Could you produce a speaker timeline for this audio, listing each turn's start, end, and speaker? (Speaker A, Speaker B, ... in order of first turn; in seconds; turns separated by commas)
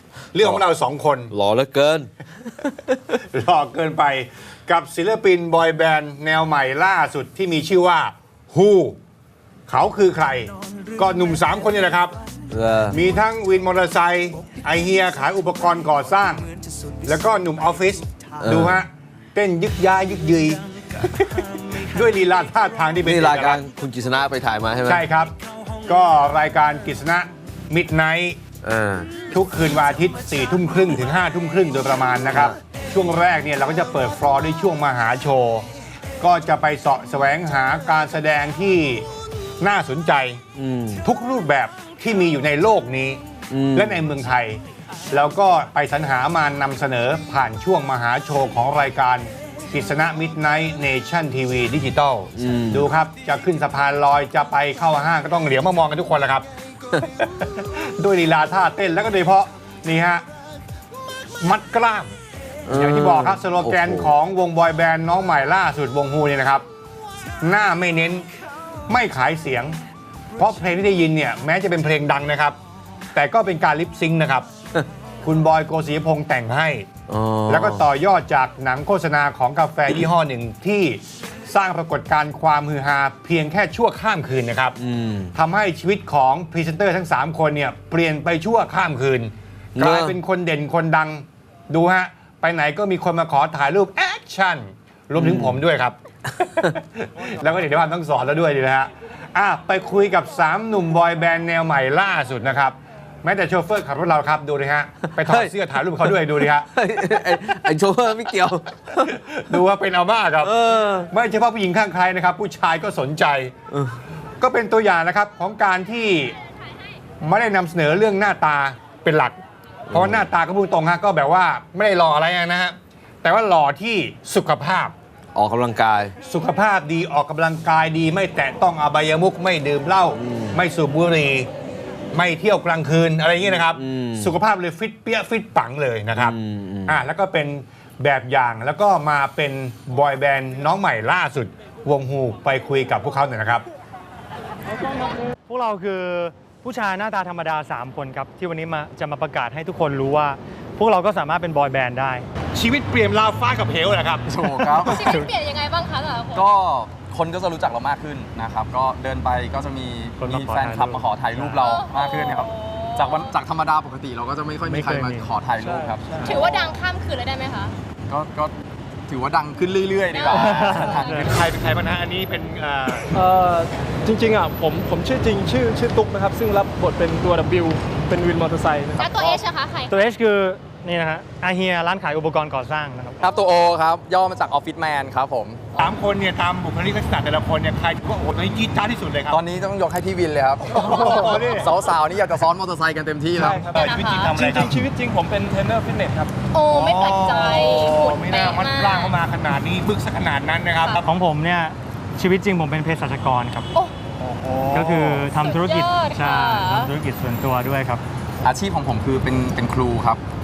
Speaker A: 0.3-1.3, Speaker B: 1.3-2.8, Speaker A: 3.3-9.0, Speaker A: 9.7-12.1, Speaker B: 12.5-13.0, Speaker A: 12.9-16.5, Speaker A: 17.0-23.6, Speaker B: 18.4-18.8, Speaker B: 23.0-25.1, Speaker A: 24.8-25.3, Speaker A: 25.8-28.4, Speaker B: 28.6-29.1, Speaker A: 29.3-35.6, Speaker A: 36.2-39.0, Speaker A: 39.6-40.4, Speaker B: 40.5-41.0, Speaker A: 41.0-43.2, Speaker B: 43.5-44.0, Speaker A: 43.7-44.6, Speaker A: 45.1-56.5, Speaker B: 52.4-52.9, Speaker A: 57.0-60.2, Speaker A: 61.4-62.1, Speaker B: 62.6-64.1, Speaker A: 62.7-66.6, Speaker A: 67.4-68.2, Speaker A: 68.9-69.8, Speaker A: 70.4-72.6, Speaker A: 73.1-74.5, Speaker A: 75.2-76.9, Speaker B: 77.1-77.8, Speaker A: 77.5-84.8, Speaker B: 84.8-85.3, Speaker A: 85.3-106.7, Speaker B: 89.8-90.2, Speaker B: 95.2-95.6, Speaker B: 105.2-109.1, Speaker A: 109.0-110.5, Speaker B: 110.4-111.1, Speaker A: 111.1-113.5, Speaker A: 114.4-116.3, Speaker A: 117.2-119.4, Speaker B: 119.9-120.2, Speaker A: 119.9-124.9, Speaker B: 125.3-126.1, Speaker A: 126.2-131.5, Speaker B: 130.2-130.6, Speaker A: 132.1-136.3, Speaker B: 133.4-134.3, Speaker B: 136.1-137.0, Speaker A: 136.9-143.6, Speaker C: 145.5-152.2, Speaker A: 152.5-154.3, Speaker D: 154.3-155.1, Speaker E: 154.8-156.5, Speaker D: 156.3-166.5, Speaker C: 160.2-161.6, Speaker E: 161.6-163.3, Speaker C: 164.7-165.3, Speaker F: 165.6-166.1, Speaker E: 166.2-167.8, Speaker D: 168.1-168.6, Speaker D: 169.1-171.4, Speaker E: 170.1-171.1, Speaker C: 170.4-171.3, Speaker A: 171.1-173.2, Speaker F: 173.1-179.3, Speaker E: 179.0-180.0, Speaker C: 179.9-183.2, Speaker D: 183.2-185.6, Speaker A: 185.7-189.4, Speaker D: 189.3-193.7, Speaker A: 190.7-191.7, Speaker F: 193.4-193.7, Speaker A: 193.7-194.9, Speaker E: 193.7-194.4, Speaker F: 194.3-196.3, Speaker E: 196.5-199.2, Speaker A: 196.7-201.0, Speaker C: 201.0-203.7, Speaker A: 204.2-205.3, Speaker C: 204.7-208.0, Speaker E: 205.4-206.9, Speaker D: 208.4-210.2